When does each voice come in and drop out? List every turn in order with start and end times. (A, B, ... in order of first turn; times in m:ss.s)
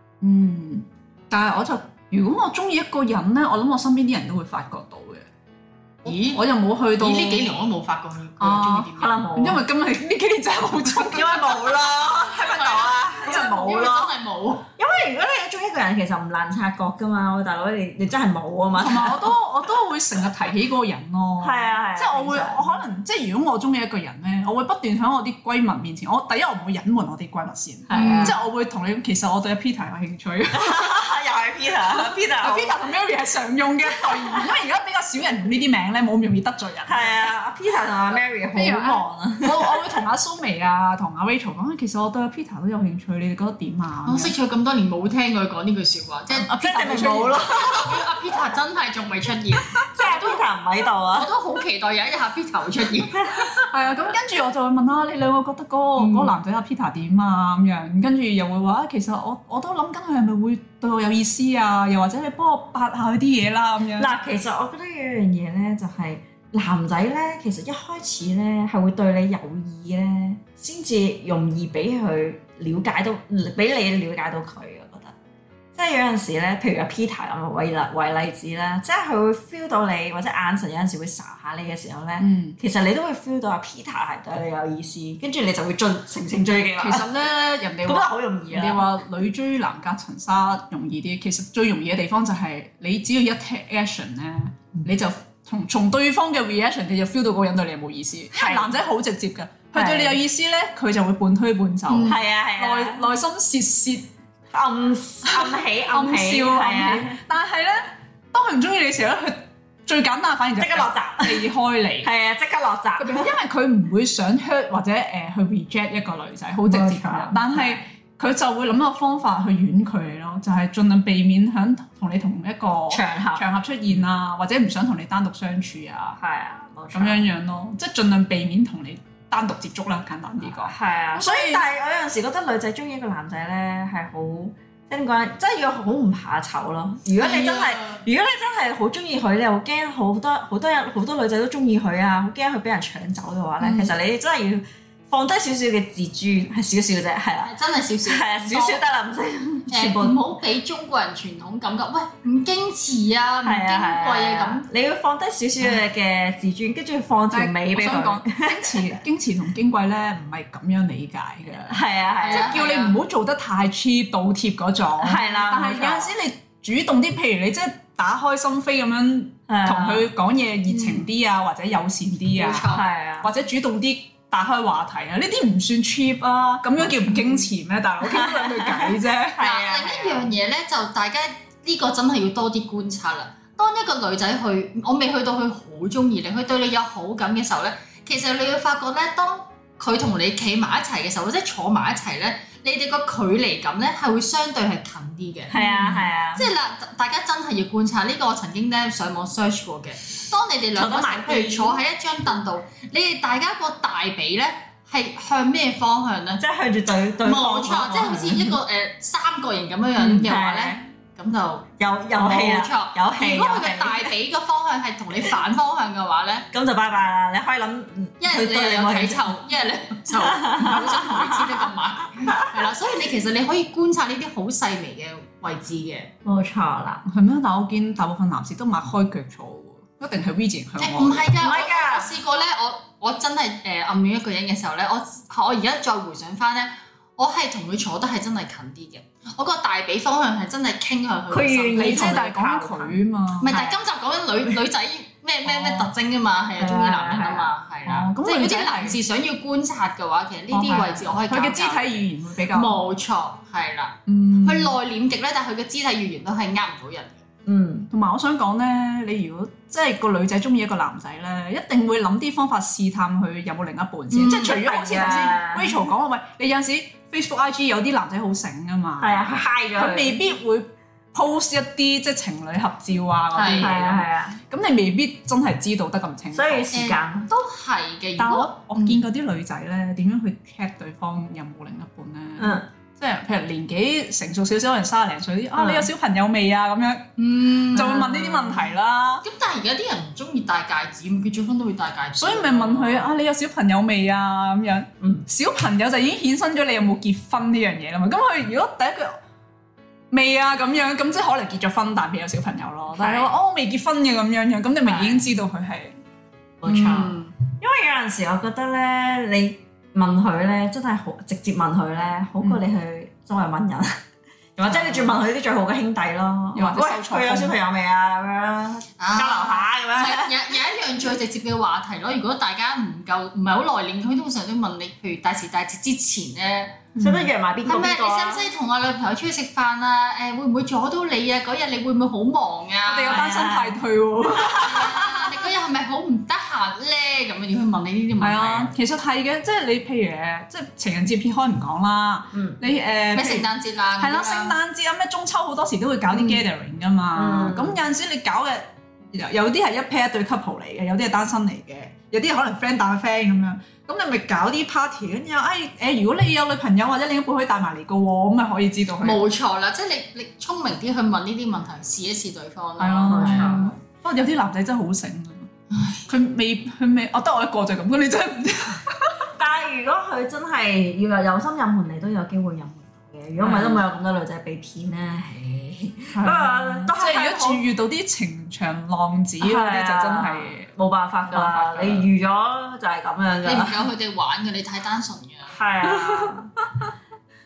0:00.2-0:05.3 A
0:06.0-0:06.4 B
0:06.0-0:07.5 A
0:07.0-0:09.2 B
0:08.4-0:12.1 A
0:08.9-0:09.6 C
0:10.9-0:14.1 C
0:12.2-0:14.6 B
0:13.2-0:13.9 A
0:14.8-0:19.3 C
0:18.8-0:31.1 A
0:21.4-0:22.8 C
0:27.9-0:28.4 C
0:27.9-0:28.4 B
0:30.5-0:32.8 C
0:31.9-0:37.3 A
0:33.9-0:34.4 C
0:36.9-0:40.0 C
0:38.5-0:44.3 A
0:44.0-0:46.5 B
0:46.3-0:47.7 A
0:46.6-0:48.0 C
0:47.4-0:50.4 B
0:49.8-0:51.3 C
0:51.1-0:53.7 B
0:53.6-1:04.1 A
0:56.0-0:56.3 B
1:04.0-1:15.1 C
1:15.7-1:27.1 C
1:22.2-1:22.6 A
1:26.8-1:44.1 A
1:27.8-1:28.8 C
1:38.3-1:38.7 C
1:39.7-1:40.2 C
1:41.9-1:42.2 B
1:42.0-1:43.1 C
1:44.5-1:47.2 C
1:45.2-1:52.1 A
1:50.6-1:51.5 C
1:52.0-1:53.3 C
1:53.0-2:06.2 A
1:56.6-1:57.8 C
2:02.9-2:03.4 C
2:06.2-2:07.3 C
2:06.9-2:11.6 A
2:10.4-2:27.5 C
2:17.1-2:18.0 B
2:23.6-2:23.9 B
2:27.4-2:28.8 B
2:28.0-2:30.3 C
2:29.7-2:34.6 B
2:33.4-2:39.0 C
2:37.3-2:59.4 A
2:41.7-2:42.6 C
2:42.2-2:42.9 B
2:45.0-2:46.1 C
2:49.5-2:50.1 C
2:50.7-2:51.0 B
2:52.3-2:52.8 B
2:52.6-2:53.3 C
2:56.8-2:57.4 C
2:58.0-3:00.3 C
2:59.4-3:15.6 B
3:15.5-3:16.5 C
3:15.6-3:16.0 A
3:16.3-3:26.4 B
3:20.7-3:21.8 C
3:26.4-3:28.6 C
3:27.2-3:36.5 B
3:30.0-3:30.8 C
3:31.8-3:34.1 C
3:36.5-3:39.4 C
3:38.2-3:46.1 B
3:40.2-3:41.7 C
3:42.3-3:42.6 C
3:46.2-3:47.0 C
3:47.0-3:51.3 A
3:50.8-4:02.2 B
3:51.4-3:52.1 C
4:01.3-4:03.8 C
4:01.7-4:03.6 A
4:03.4-4:17.2 B
4:05.5-4:05.9 A
4:06.6-4:07.5 C
4:07.9-4:09.0 A
4:10.5-4:12.8 A
4:14.1-4:14.8 A
4:17.4-4:17.9 C
4:17.9-4:36.7 A
4:24.1-4:24.6 B
4:24.3-4:25.8 C
4:29.0-4:30.2 C
4:33.3-4:33.7 B
4:33.5-4:34.4 C
4:36.3-4:37.3 C
4:36.7-4:39.0 B
4:38.2-4:49.2 A
4:42.4-4:42.6 C
4:45.5-4:45.9 C
4:47.2-4:48.0 B
4:47.8-4:48.7 C
4:49.2-4:53.1 B
4:52.2-4:59.2 A
5:00.1-5:06.0 A
5:02.9-5:03.3 C
5:04.8-5:05.3 C
5:06.6-5:13.9 C
5:06.7-5:07.3 B
5:14.6-5:20.3 C
5:14.7-5:15.1 A
5:16.5-5:17.6 A
5:19.0-5:26.8 B
5:26.9-5:27.3 A
5:27.0-5:28.4 C
5:27.6-5:33.4 B
5:32.8-5:34.9 A
5:33.1-5:33.8 C
5:34.3-5:35.4 C
5:34.6-5:38.7 B
5:38.2-5:43.5 A
5:42.3-5:42.6 C
5:43.1-5:44.5 B
5:44.0-5:59.2 A
5:46.1-5:46.4 B
5:47.1-5:47.8 C
5:59.0-6:03.8 B
6:02.8-6:05.5 A
6:03.1-6:03.7 C
6:05.7-6:06.0 B
6:06.1-6:09.2 A
6:09.4-6:17.6 C
6:13.4-6:13.8 A
6:16.1-6:20.7 A
6:19.4-6:23.8 C
6:21.2-6:22.1 A
6:23.4-6:25.6 B
6:25.5-6:26.5 C
6:25.9-6:26.3 A